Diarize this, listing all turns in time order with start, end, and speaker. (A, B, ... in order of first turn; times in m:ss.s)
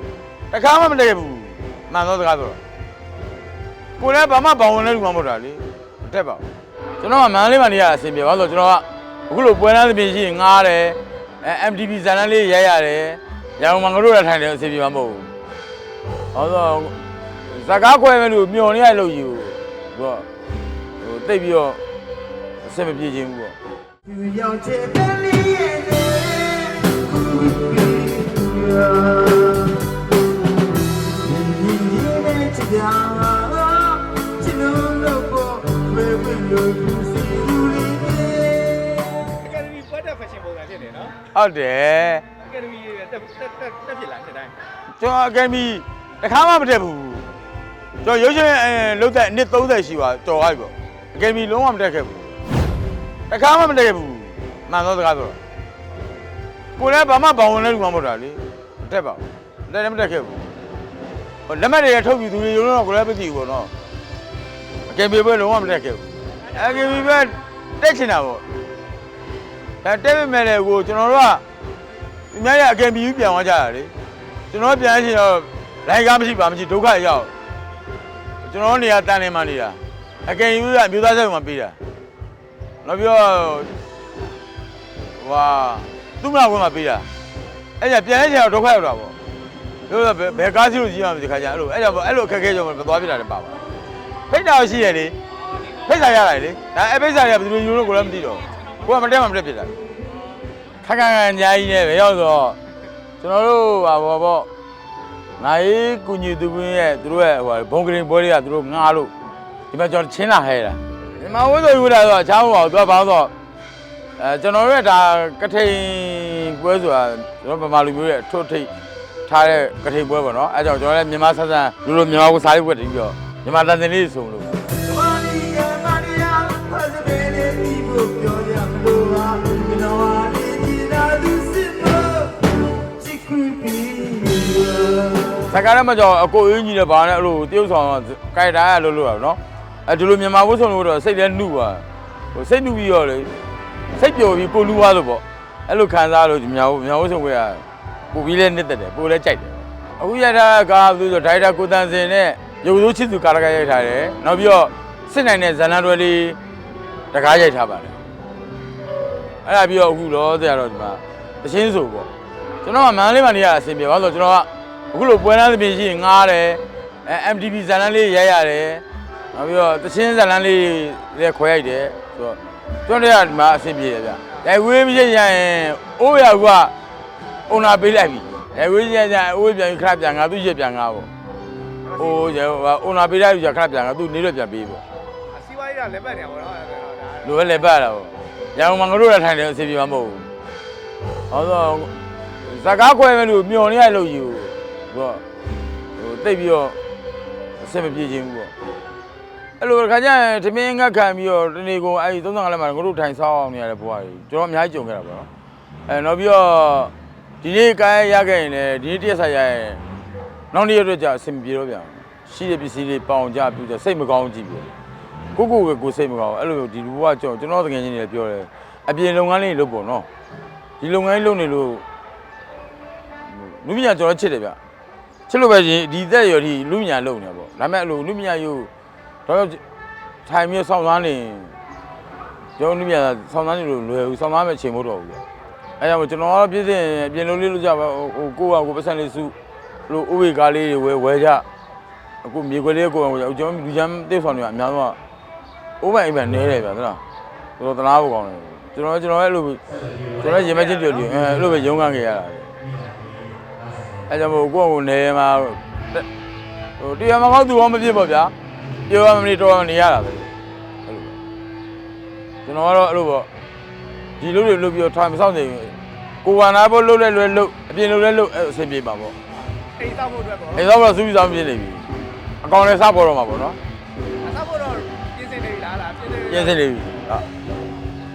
0:00.5-0:02.6 A
0:04.0-0:06.5 A
0:07.0-0:15.3 A
0:16.3-0:17.0 A
0:17.5-0:20.3 A
0:21.0-0:21.8 A
0:22.6-0:23.6 A
0:24.1-0:29.8 B
0:31.3-0:39.1 B
0:39.2-0:41.2 C
0:41.3-0:42.2 A
0:42.4-0:44.5 C
0:44.9-0:47.3 A
0:48.0-0:52.4 A
0:53.3-0:55.4 A
0:56.8-1:00.5 A
1:01.5-1:03.7 A
1:04.9-1:08.4 A
1:09.8-1:11.4 A
1:12.3-1:13.9 A
1:14.5-1:17.3 A
1:18.4-1:21.8 A
1:22.8-1:23.7 A
1:25.2-1:27.1 A
1:27.8-1:29.2 A
1:29.9-1:33.6 A
1:34.3-1:35.2 A
1:35.8-1:39.7 A
1:40.8-1:42.6 A
1:43.2-1:44.5 A
1:45.4-1:49.1 A
1:49.7-1:53.3 A
1:54.2-1:58.7 A
1:59.3-2:04.6 A
2:04.9-2:15.4 B
2:15.5-2:23.3 A
2:24.0-2:36.4 A
2:37.1-2:38.0 A
2:39.4-2:42.1 A
2:42.6-2:56.7 A
2:57.5-3:01.1 A
3:01.8-3:02.4 C
3:02.0-3:04.8 A
3:05.3-3:07.6 C
3:07.2-3:10.3 A
3:11.3-3:15.2 A
3:16.0-3:16.8 A
3:17.6-3:18.5 A
3:19.6-3:25.3 A
3:25.9-3:29.8 A
3:30.5-3:34.7 A
3:35.3-3:40.1 A
3:40.8-3:41.8 A
3:43.2-3:44.6 A
3:45.3-3:48.7 A
3:49.3-3:49.6 A
3:50.3-3:51.6 A
3:52.6-3:55.2 A
3:55.8-3:59.4 A
3:59.9-4:01.4 A
4:02.2-4:05.0 A
4:05.8-4:07.0 A
4:07.6-4:12.6 A
4:10.2-4:11.2 C
4:14.1-4:16.1 A
4:16.8-4:18.3 A
4:18.9-4:20.3 A
4:20.9-4:21.2 A
4:22.4-4:23.3 A
4:24.2-4:29.2 A
4:29.6-4:30.8 C
4:30.5-4:31.9 A
4:32.4-4:33.6 A
4:34.2-4:36.6 C
4:36.3-4:37.3 A